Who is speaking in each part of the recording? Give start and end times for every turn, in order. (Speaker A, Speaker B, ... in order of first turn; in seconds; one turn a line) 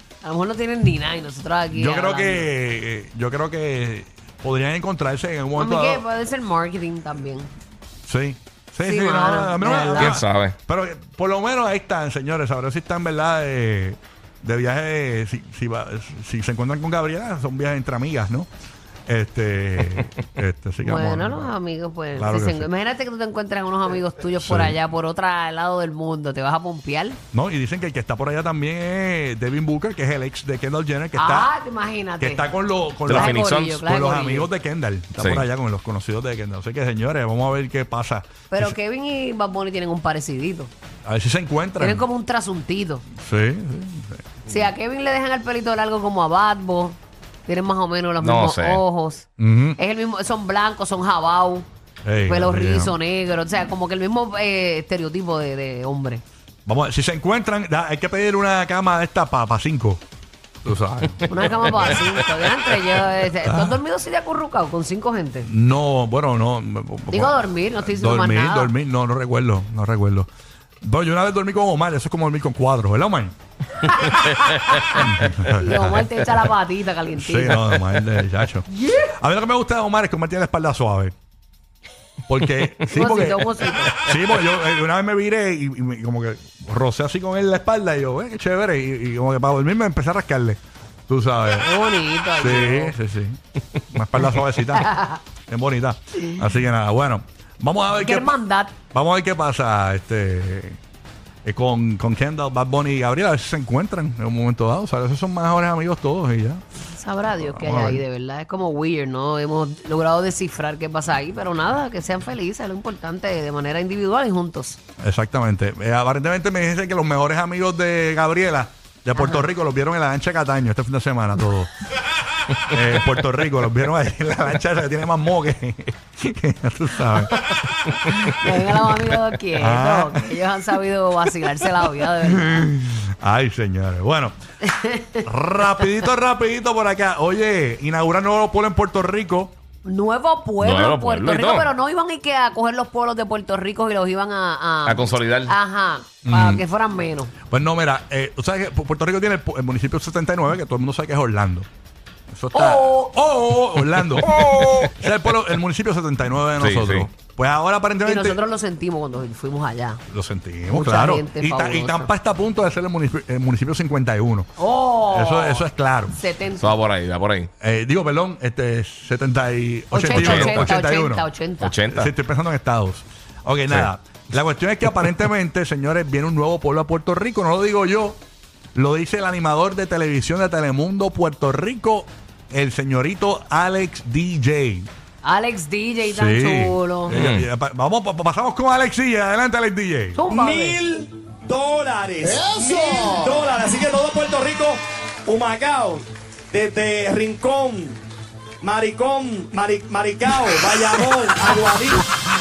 Speaker A: 0.2-2.5
Speaker B: 1.7-6.0
Speaker A: 5.6-7.5
Speaker B: 8.1-18.5
Speaker A: 8.8-10.2
Speaker C: 10.0-10.6
Speaker B: 19.1-21.5
Speaker A: 20.8-27.2
Speaker B: 22.1-22.7
Speaker B: 24.4-24.8
Speaker B: 27.3-31.5
Speaker A: 31.1-32.4
Speaker B: 32.2-38.8
Speaker C: 33.1-33.8
Speaker A: 33.1-34.5
Speaker C: 35.2-35.5
Speaker A: 38.5-40.7
Speaker B: 41.0-42.0
Speaker A: 41.8-43.0
Speaker B: 43.2-44.3
Speaker A: 44.5-49.3
Speaker C: 48.2-48.8
Speaker B: 49.4-49.8
Speaker A: 49.8-51.7
Speaker B: 52.0-52.9
Speaker A: 52.2-56.2
Speaker B: 56.7-60.0
Speaker B: 60.6-62.0
Speaker C: 61.1-62.8
Speaker A: 61.3-65.5
Speaker B: 63.4-63.8
Speaker B: 65.4-70.3
Speaker A: 67.1-68.7
Speaker B: 70.8-73.3
Speaker A: 73.9-77.6
Speaker C: 74.2-75.0
Speaker B: 75.0-76.1
Speaker B: 77.2-81.1
Speaker A: 78.8-79.1
Speaker B: 82.3-91.8
Speaker A: 82.9-83.9
Speaker A: 91.6-93.0
Speaker B: 92.3-98.4
Speaker A: 94.7-95.2
Speaker A: 96.2-96.5
Speaker A: 97.9-98.8
Speaker B: 98.9-100.8
Speaker B: 101.5-106.6
Speaker A: 106.9-114.8
Speaker B: 107.3-108.0
Speaker B: 115.0-121.7
Speaker A: 119.2-119.5
Speaker B: 122.6-127.5
Speaker A: 128.1-132.7
Speaker B: 128.3-128.9
Speaker B: 129.6-130.4
Speaker B: 132.3-134.4
Speaker A: 134.6-135.3
Speaker B: 135.2-139.6
Speaker A: 139.8-147.3
Speaker C: 140.6-141.7
Speaker C: 144.8-145.6
Speaker B: 146.2-146.7
Speaker B: 147.5-151.7
Speaker B: 152.3-158.4
Speaker A: 152.5-153.1
Speaker C: 154.0-154.9
Speaker C: 156.6-157.1
Speaker A: 158.0-160.0
Speaker B: 160.1-164.5
Speaker A: 160.7-162.1
Speaker A: 164.6-166.8
Speaker B: 165.1-166.2
Speaker C: 166.6-167.5
Speaker B: 167.6-171.3
Speaker A: 169.9-171.8
Speaker C: 170.1-170.8
Speaker C: 171.6-172.1
Speaker B: 171.9-178.2
Speaker B: 178.8-184.9
Speaker A: 185.2-187.1
Speaker B: 186.1-190.2
Speaker C: 187.1-187.5
Speaker A: 190.2-190.8
Speaker D: 190.3-198.0
Speaker D: 198.6-202.1